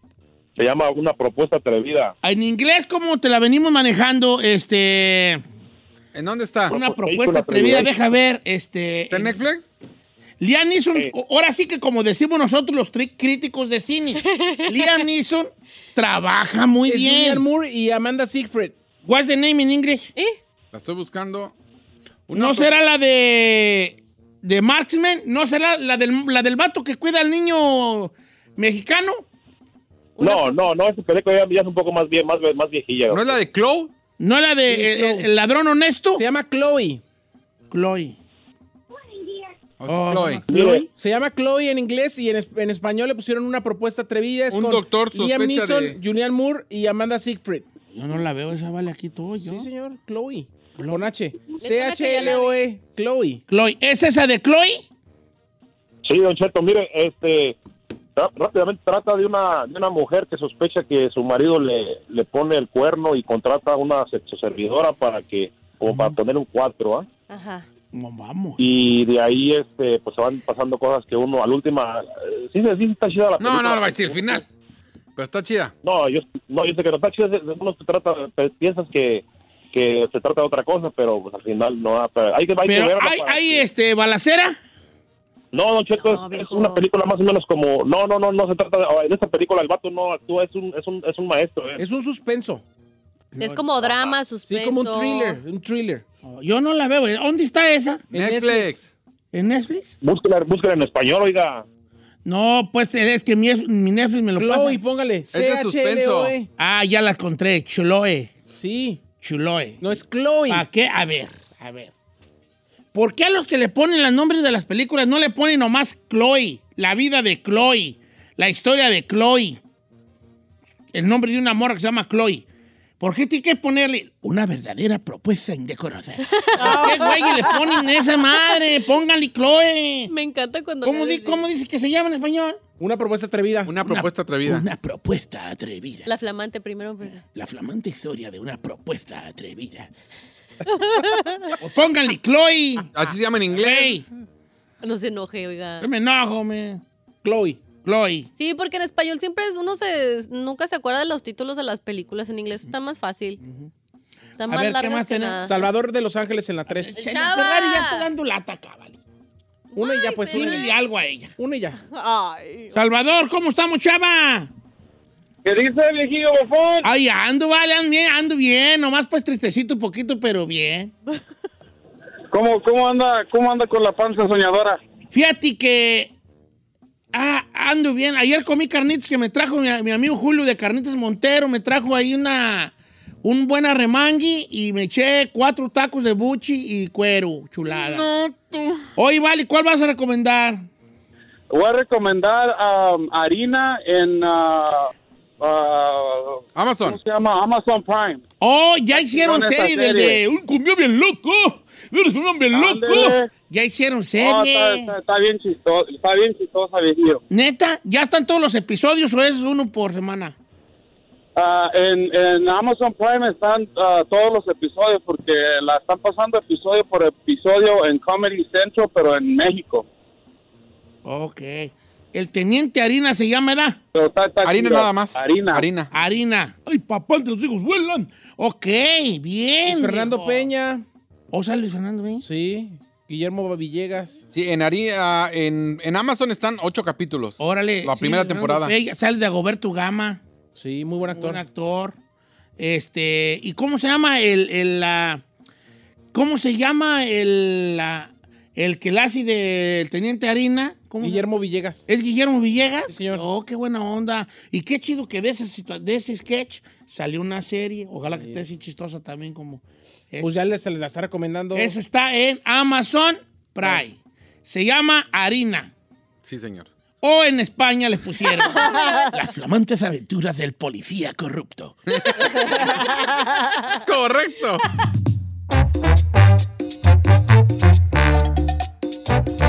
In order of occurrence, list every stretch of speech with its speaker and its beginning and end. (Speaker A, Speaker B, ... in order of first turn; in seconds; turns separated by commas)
Speaker A: 0.6-2.1, Speaker B: 2.2-5.4, Speaker C: 6.1-6.7, Speaker A: 6.7-7.9, Speaker B: 6.7-9.3, Speaker C: 9.1-9.7, Speaker B: 10.4-17.4, Speaker D: 14.2-15.0, Speaker E: 16.9-18.7, Speaker B: 19.0-20.1, Speaker C: 20.7-21.5, Speaker C: 22.3-22.7, Speaker B: 22.3-29.2, Speaker D: 30.2-30.6, Speaker A: 30.2-33.4, Speaker C: 33.1-33.9, Speaker B: 34.2-36.2, Speaker E: 34.7-35.3, Speaker E: 36.1-37.0, Speaker B: 37.7-38.2, Speaker C: 39.8-40.4, Speaker B: 39.9-40.9, Speaker A: 40.5-40.8, Speaker E: 40.9-47.6, Speaker C: 44.5-46.0, Speaker B: 47.9-49.7, Speaker E: 49.4-53.4, Speaker D: 51.6-52.6, Speaker B: 53.5-54.8, Speaker A: 56.0-57.6, Speaker A: 58.1-67.1, Speaker D: 67.3-67.7, Speaker B: 67.9-68.6, Speaker A: 68.6-74.4, Speaker C: 73.4-74.5, Speaker C: 75.2-75.7, Speaker A: 75.8-83.7, Speaker B: 82.7-84.6, Speaker A: 85.5-91.8, Speaker D: 86.0-86.8, Speaker E: 91.8-92.6, Speaker B: 93.3-93.6, Speaker D: 93.4-95.4, Speaker E: 94.5-96.0, Speaker B: 96.2-98.0, Speaker C: 98.1-98.9, Speaker E: 98.1-98.8, Speaker B: 99.3-99.9, Speaker A: 100.0-101.6, Speaker B: 102.2-104.8, Speaker E: 104.4-106.5, Speaker C: 105.3-106.3, Speaker B: 106.6-108.3, Speaker E: 108.6-109.0, Speaker B: 109.2-109.8, Speaker E: 109.8-110.6, Speaker B: 110.5-111.9, Speaker B: 112.9-119.6, Speaker B: 120.9-122.5, Speaker B: 123.0-130.1, Speaker D: 126.3-127.6, Speaker F: 126.6-127.4, Speaker D: 130.1-131.4, Speaker B: 130.8-132.6, Speaker E: 132.8-133.7, Speaker C: 133.7-134.7, Speaker B: 133.8-136.1, Speaker D: 136.0-137.2, Speaker B: 137.3-139.9, Speaker F: 140.9-141.4, Speaker B: 141.6-142.9, Speaker C: 142.9-144.0, Speaker B: 143.5-144.0, Speaker D: 144.8-145.9, Speaker B: 145.8-146.8, Speaker E: 147.2-147.6, Speaker B: 147.8-148.3, Speaker D: 148.4-153.4, Speaker B: 153.4-153.7, Speaker D: 154.4-155.7, Speaker B: 154.4-155.4, Speaker E: 155.4-156.9, Speaker B: 156.7-159.0, Speaker D: 156.9-158.1, Speaker D: 159.7-160.7, Speaker E: 159.7-160.7, Speaker B: 160.3-161.3, Speaker E: 161.4-161.8, Speaker F: 161.9-162.8, Speaker B: 162.7-164.5, Speaker G: 165.4-166.9, Speaker B: 166.8-170.9, Speaker G: 172.3-174.8, Speaker B: 175.1-176.1, Speaker B: 177.1-188.1, Speaker C: 187.7-188.8, Speaker B: 189.0-190.6, Speaker G: 191.5-198.2, Speaker C: 196.5-197.0, Speaker B: 198.4-204.9, Speaker G: 199.1-200.2, Speaker G: 202.5-203.3, Speaker G: 204.2-207.2, Speaker B: 207.3-210.3, Speaker G: 211.3-219.8, Speaker B: 221.0-223.8, Speaker G: 223.9-225.7, Speaker C: 224.4-225.9, Speaker B: 225.9-230.5, Speaker E: 229.6-230.8, Speaker B: 231.3-232.2, Speaker E: 232.2-234.2, Speaker C: 234.3-238.7, Speaker B: 237.4-240.2, Speaker E: 240.5-241.4, Speaker B: 241.1-242.0, Speaker B: 242.6-245.2, Speaker B: 246.1-251.2, Speaker E: 251.0-251.8, Speaker B: 251.9-260.3, Speaker E: 252.9-253.2, Speaker E: 258.1-258.4, Speaker E: 260.2-261.7, Speaker B: 261.5-265.7, Speaker C: 266.2-266.7, Speaker B: 267.0-272.5, Speaker D: 268.6-269.0, Speaker F: 268.7-269.1, Speaker C: 271.9-272.8, Speaker C: 273.7-274.6